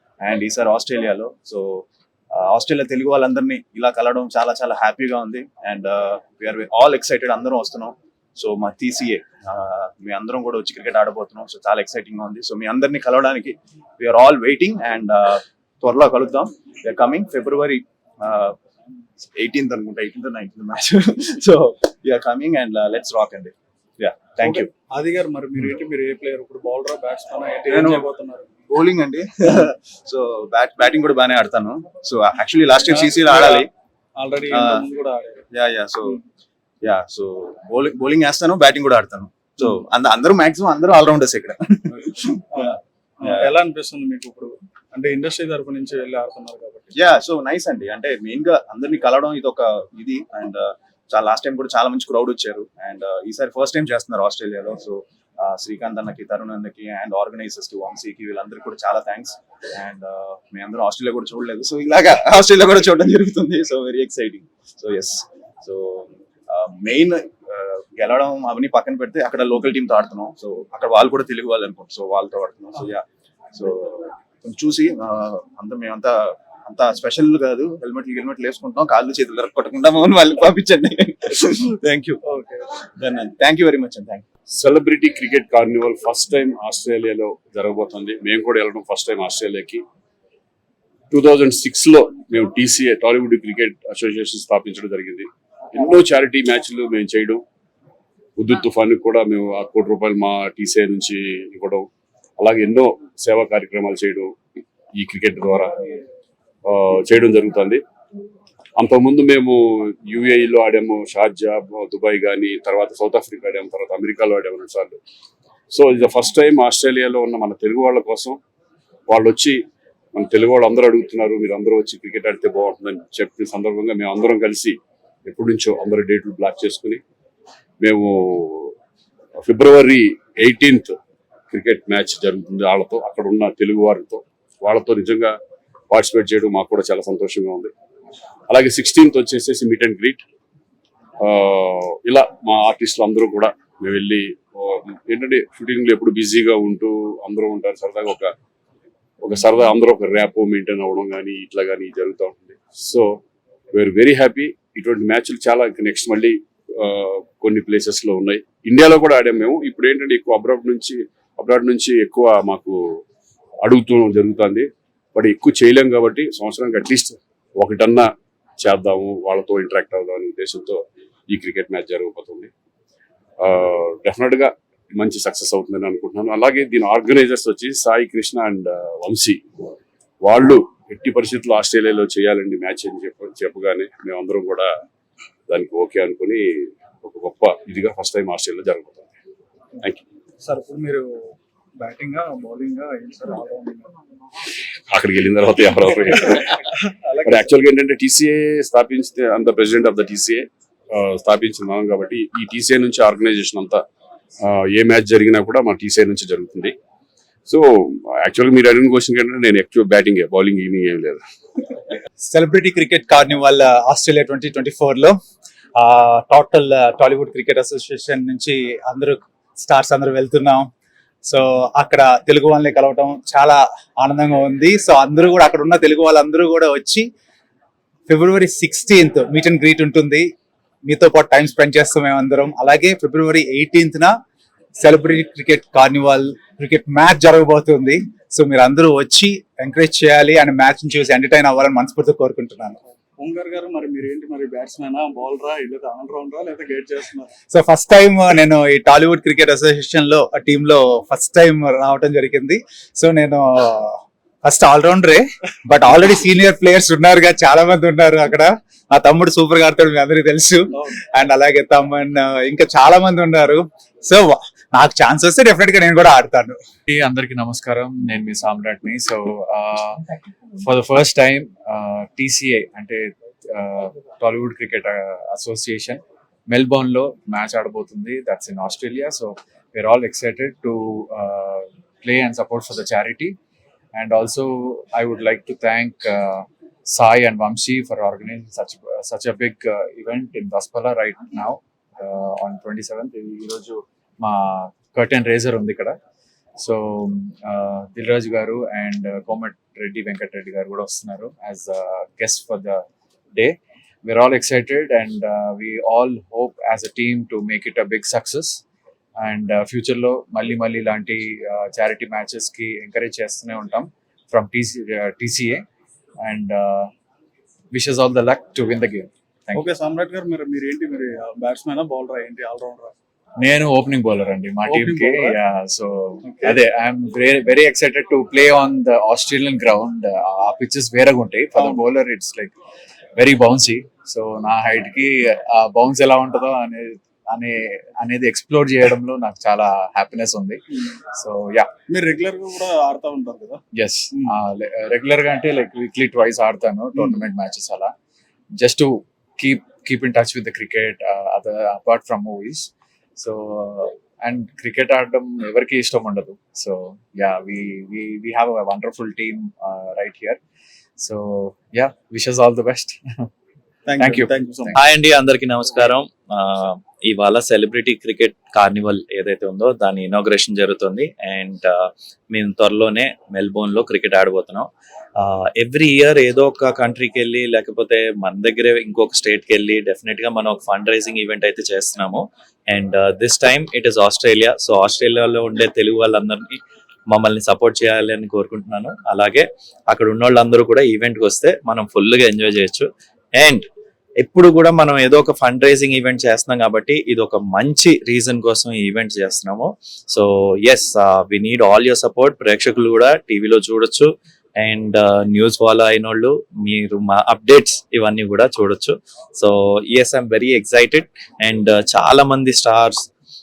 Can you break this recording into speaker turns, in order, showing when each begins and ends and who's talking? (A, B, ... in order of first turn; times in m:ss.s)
0:00.2-0:18.6 A
0:19.2-0:24.7 A
0:24.4-0:28.5 B
0:27.7-0:28.1 A
0:28.7-0:33.7 A
0:32.9-0:33.7 B
0:34.2-0:35.4 B
0:34.5-0:34.9 A
0:35.5-0:36.2 A
0:36.8-0:42.7 A
0:43.2-0:46.9 B
0:43.2-0:43.5 A
0:47.0-1:22.2 A
1:22.3-1:22.6 B
1:23.0-1:24.2 A
1:24.5-1:29.8 C
1:31.1-1:37.4 C
1:38.4-1:41.9 C
1:42.4-1:44.4 C
1:44.9-1:45.9 C
1:46.7-1:47.8 C
1:48.8-1:55.0 C
1:55.7-1:58.4 C
1:59.1-1:59.6 C
2:00.1-2:07.0 C
2:07.8-2:08.7 C
2:09.4-2:11.0 C
2:11.5-2:15.4 C
2:15.9-2:17.7 C
2:18.5-2:20.2 C
2:21.2-2:28.3 C
2:29.2-2:33.2 C
2:33.7-2:42.8 C
2:43.6-2:52.5 C
2:53.4-2:59.4 C
3:00.2-3:04.7 C
3:05.5-3:09.1 C
3:10.4-3:11.1 B
3:11.8-3:13.9 B
3:14.9-3:16.6 C
3:16.8-3:17.4 B
3:17.2-3:23.8 C
3:24.4-3:26.8 C
3:27.5-3:31.2 C
3:32.2-3:35.2 D
3:35.8-3:40.7 D
3:41.3-3:47.0 D
3:48.1-3:50.3 D
3:50.9-3:54.1 D
3:54.8-4:02.8 D
4:03.2-4:07.3 B
4:07.5-4:26.6 D
4:26.9-4:30.0 E
4:30.6-4:43.4 E
4:43.9-4:56.0 E
4:56.6-5:02.8 E
5:03.4-5:08.6 E
5:09.2-5:15.6 E
5:16.2-5:16.9 E
5:17.7-5:19.7 E
5:19.5-5:22.9 B
5:23.4-5:32.5 E
5:24.7-5:25.4 B
5:26.2-5:26.6 B
5:31.6-5:31.8 B
5:33.2-5:41.7 E
5:41.9-5:43.6 B
5:43.7-5:47.9 E
5:48.6-6:00.4 E
6:01.0-6:03.3 E
6:03.9-6:04.7 B
6:04.0-6:04.7 E
6:04.7-6:26.6 F
6:27.1-6:33.7 F
6:34.2-6:53.0 F